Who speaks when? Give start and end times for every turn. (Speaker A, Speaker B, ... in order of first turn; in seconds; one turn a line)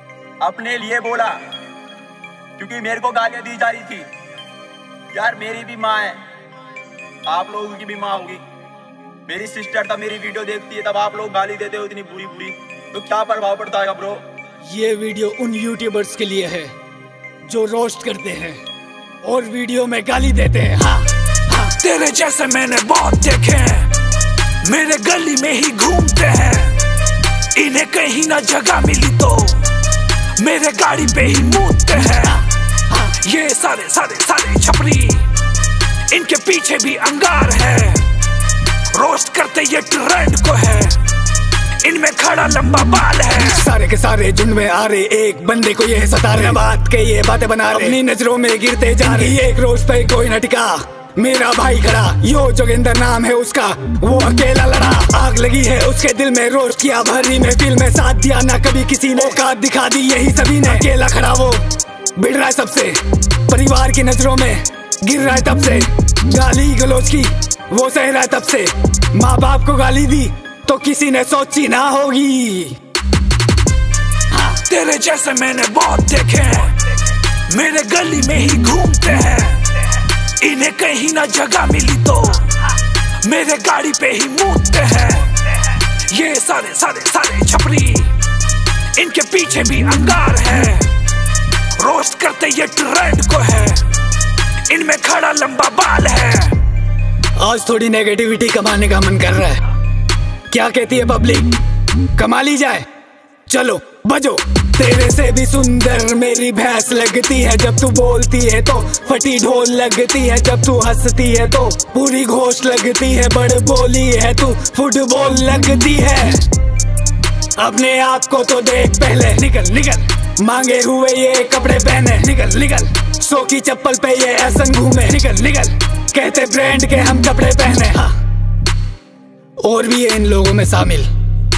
Speaker A: 0.4-1.4
Speaker A: 2.6-4.1
Speaker A: 5.1-6.2
Speaker A: 7.2-8.4
Speaker A: 9.2-14.2
Speaker B: 14.7-16.7
Speaker B: 17.4-18.6
Speaker B: 19.2-21.7
Speaker C: 21.8-23.9
Speaker C: 24.6-26.8
Speaker C: 27.5-29.7
Speaker C: 30.4-32.4
Speaker C: 32.9-35.3
Speaker C: 36.1-38.1
Speaker C: 38.9-41.0
Speaker C: 41.8-43.7
Speaker B: 43.4-61.6
Speaker B: 62.1-72.8
Speaker C: 74.6-88.2
Speaker C: 88.9-90.9
Speaker C: 91.8-93.9
Speaker C: 94.7-96.6
Speaker B: 97.4-99.6
Speaker B: 100.5-101.6
Speaker B: 102.1-102.8
Speaker B: 103.5-116.5
Speaker B: 117.5-128.2
Speaker B: 129.6-131.1